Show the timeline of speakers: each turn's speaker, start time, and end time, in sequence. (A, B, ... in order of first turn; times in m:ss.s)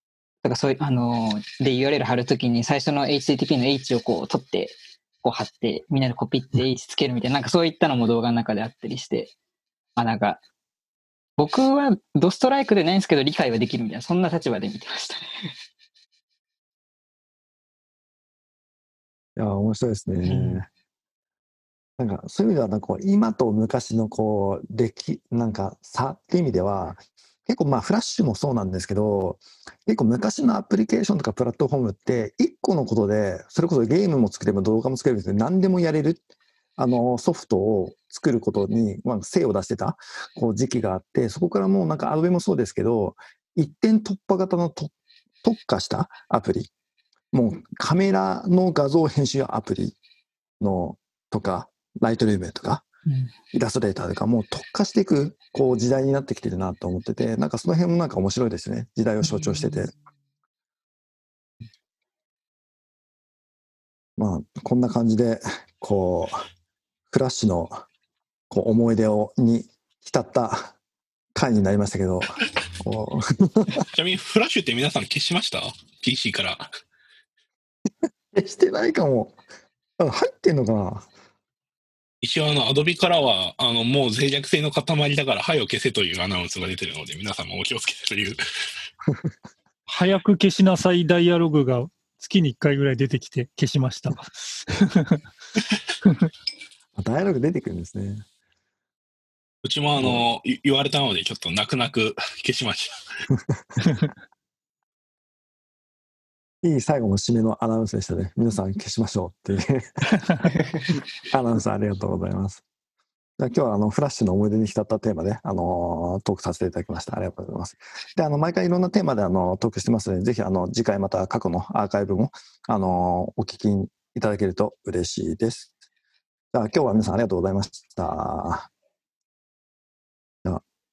0:00.4-0:09.3 A
0:10.0-0:10.4 A
0:11.4-0:15.5 A
0:19.4-0:20.7 B
0:20.2-0:20.6 A
0:22.0-0:36.2 B
0:36.8-0:44.9 B
0:45.4-0:46.7 B
0:47.3-0:50.0 B
0:50.6-0:52.9 B
0:53.1-0:53.3 A
0:53.5-0:59.9 B
0:59.2-0:59.8 A
1:04.2-1:06.4 B
1:07.1-1:07.8 B
1:08.5-1:10.8 B
1:11.4-1:13.8 B
1:13.9-1:16.7 C
1:18.3-1:19.4 B
1:20.0-1:21.1 B
1:22.2-1:28.4 C
1:29.9-1:35.2 D
1:37.0-1:38.2 B
1:39.6-1:42.9 C
1:40.0-1:40.2 B
1:46.6-1:52.6 B
1:53.4-2:05.8 B
2:06.5-2:08.7 B